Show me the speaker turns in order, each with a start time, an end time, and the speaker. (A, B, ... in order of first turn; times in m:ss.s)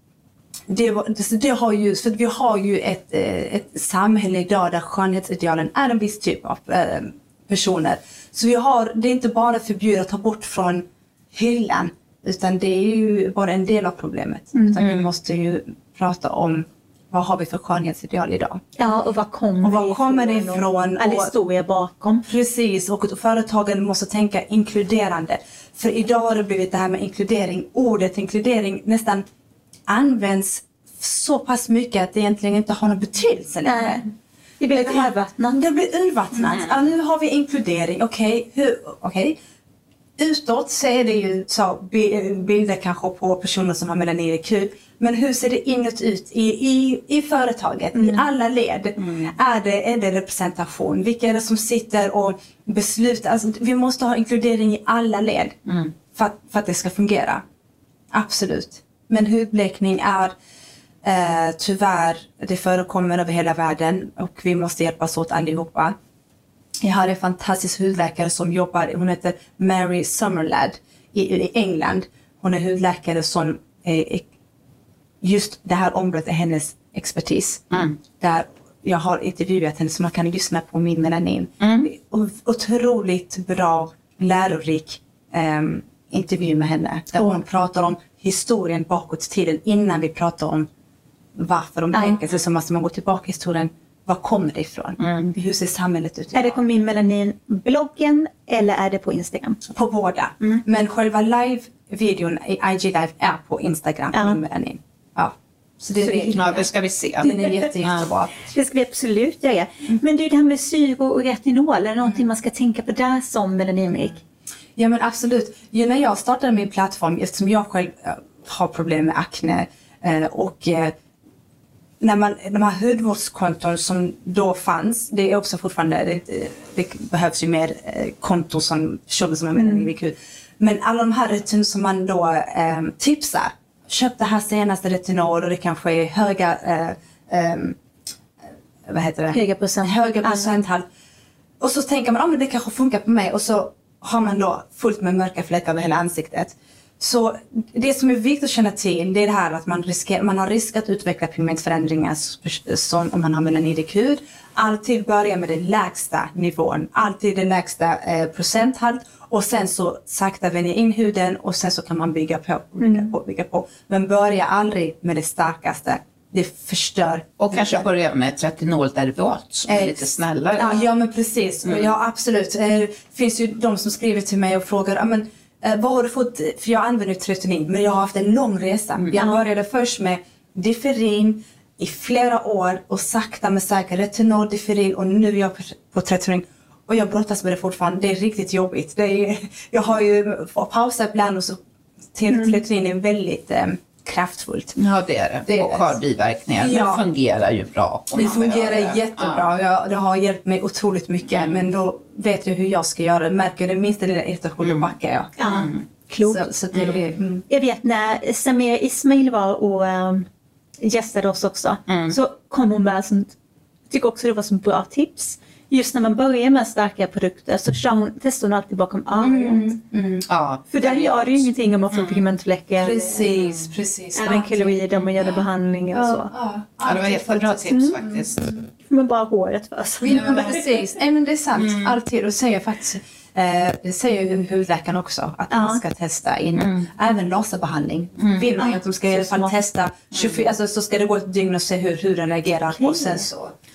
0:00.7-0:18.6 A
0:18.8-0:22.2 B
0:19.6-0:21.3 A
0:22.3-0:29.2 A
0:29.9-0:34.0 A
0:33.6-0:34.0 B
0:34.6-0:35.6 B
0:34.7-0:39.4 A
0:40.2-0:57.4 A
0:47.9-0:48.2 B
0:55.7-0:55.9 C
0:58.1-1:00.3 A
1:01.0-1:06.0 A
1:06.8-1:14.3 A
1:15.2-1:30.7 A
1:17.7-1:18.0 C
1:21.6-1:21.9 C
1:31.4-1:36.6 A
1:31.9-1:32.2 B
1:35.0-1:35.3 C
1:36.3-1:39.6 B
1:39.7-1:46.7 A
1:44.1-1:44.4 B
1:46.3-1:48.0 C
1:47.2-1:48.3 A
1:47.2-1:47.7 B
1:48.4-1:54.2 B
1:54.8-2:00.9 A
2:02.0-2:17.8 A
2:09.6-2:09.9 B
2:18.9-2:20.8 A
2:19.3-2:20.5 B
2:21.6-2:47.9 A
2:42.8-2:43.1 B
2:47.4-2:50.8 C
2:49.7-2:50.0 A
2:50.6-3:11.6 A
2:59.2-2:59.4 B
3:12.1-3:14.8 A
3:12.3-3:12.6 B
3:14.8-3:19.4 C
3:15.5-3:16.0 A
3:16.6-3:17.0 A
3:18.1-3:25.4 A
3:24.6-3:24.9 C
3:25.4-3:26.5 B
3:25.4-3:25.8 C
3:26.2-3:27.4 A
3:26.7-3:27.0 C
3:27.5-3:30.3 B
3:30.8-3:33.3 B
3:31.9-3:32.2 C
3:33.9-3:39.7 B
3:39.2-3:40.2 A
3:40.3-3:42.2 C
3:40.7-3:43.6 B
3:42.8-3:44.8 A
3:44.2-3:46.3 B
3:45.9-3:48.2 A
3:46.8-3:48.5 C
3:47.7-3:48.0 B
3:48.9-3:50.7 B
3:50.0-4:03.5 A
3:51.6-3:51.9 C
3:55.5-3:55.8 B
3:56.6-3:56.9 C
3:58.2-3:58.5 C
3:58.6-3:59.5 B
4:02.8-4:03.2 B